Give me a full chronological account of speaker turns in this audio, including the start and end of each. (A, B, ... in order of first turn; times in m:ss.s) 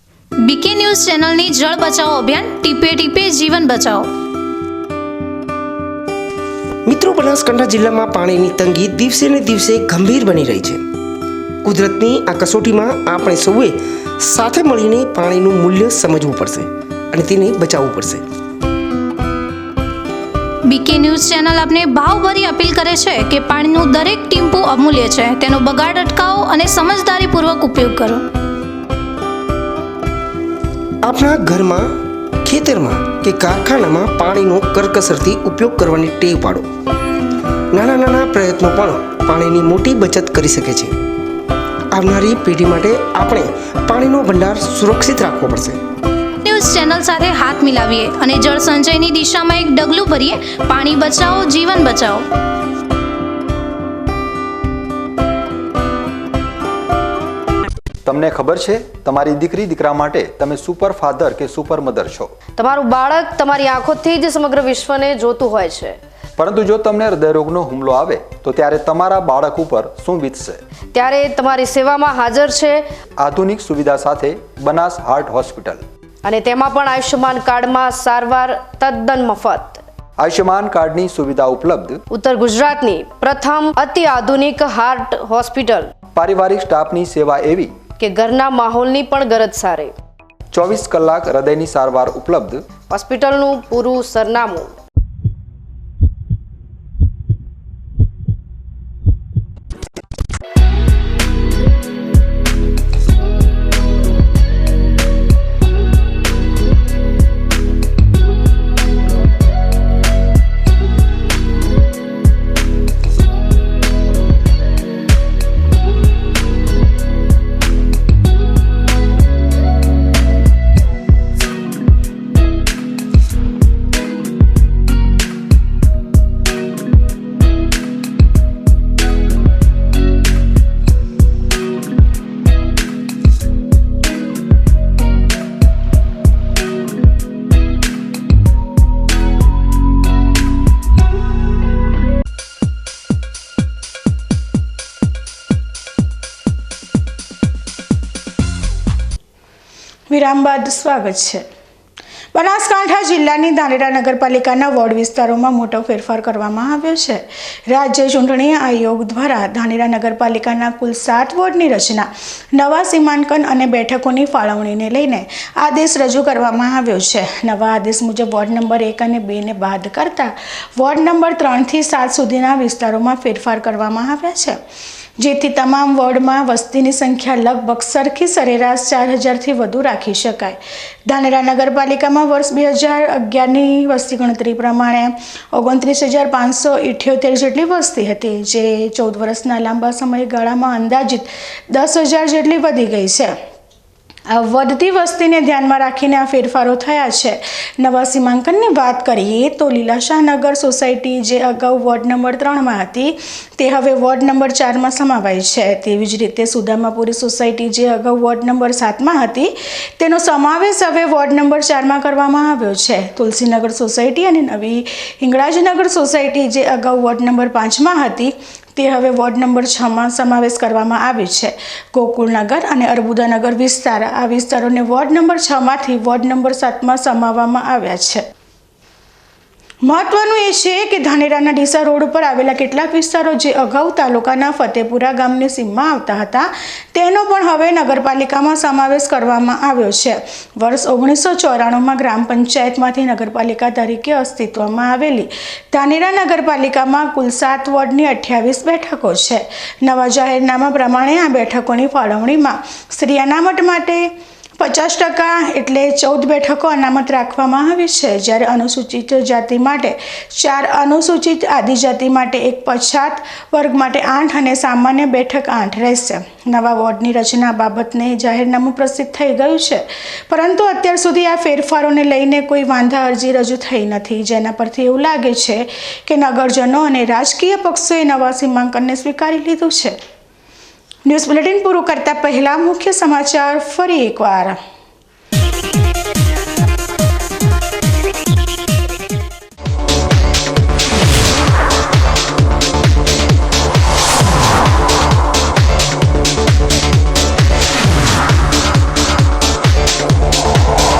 0:00.4-0:04.1 A
0:06.9-0:10.8 B
0:11.6-0:18.2 B
0:20.7-0:28.2 A
0:31.0-0:31.9 B
0:32.4-0:36.7 B
0:37.7-0:40.9 B
0:41.9-0:45.8 B
0:46.4-0:52.2 A
0:58.0-1:02.4 C
1:02.6-1:06.0 D
1:06.4-1:10.6 C
1:10.9-1:12.8 D
1:13.2-1:15.8 C
1:16.2-1:19.8 D
1:20.2-1:22.0 C
1:22.1-1:25.9 D
1:26.1-1:27.8 C
1:28.0-1:29.9 D
1:30.5-1:32.6 C
1:32.9-1:34.7 D
2:30.1-2:31.4 E
2:32.3-2:54.6 E
2:55.2-3:13.3 E
3:14.3-3:48.2 E
3:49.8-4:40.0 E
4:41.0-4:44.6 E